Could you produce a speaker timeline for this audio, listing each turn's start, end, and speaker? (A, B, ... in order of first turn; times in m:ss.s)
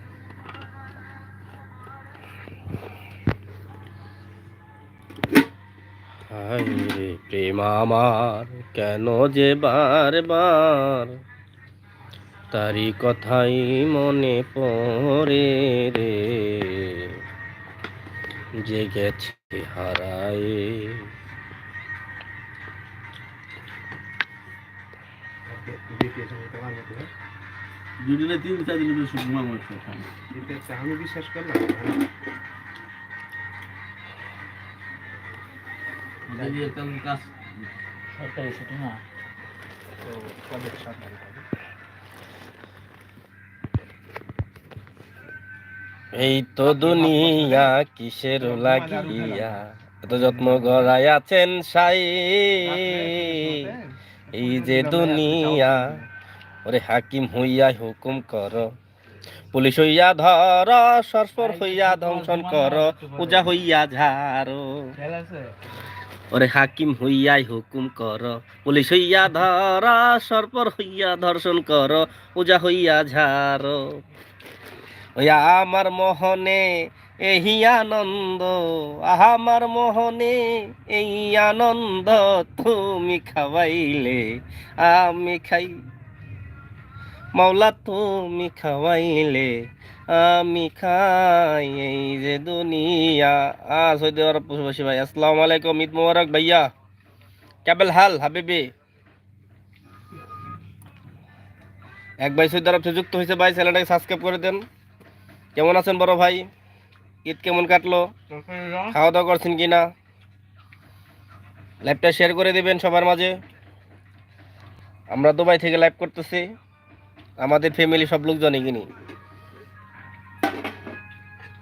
0:06.3-0:11.2 A
0:12.5-0:17.2 A
0:18.6-0:21.1 A
0:25.5-0:27.1 B
0:28.0-0:30.1 C
0:30.3-0:32.0 B
0:36.3-0:37.7 C
0:36.3-0:36.8 B
0:38.2-0:39.0 D
0:40.0-0:41.4 B
0:46.1-0:53.7 A
0:46.8-0:47.7 B
0:48.4-0:50.9 B
0:52.6-0:56.1 B
0:54.3-0:55.9 A
0:56.6-0:58.7 A
0:59.5-1:04.9 A
1:01.4-1:03.6 D
1:05.0-1:05.5 D
1:06.3-1:14.0 A
1:15.2-1:25.8 A
1:27.4-1:36.7 A
1:37.6-1:38.7 A
1:42.2-1:44.6 A
1:45.6-1:46.5 A
1:47.2-1:48.2 A
1:48.4-1:49.0 D
1:48.9-1:49.9 A
1:51.8-1:53.4 A
1:55.1-1:56.5 A
1:57.4-1:58.9 A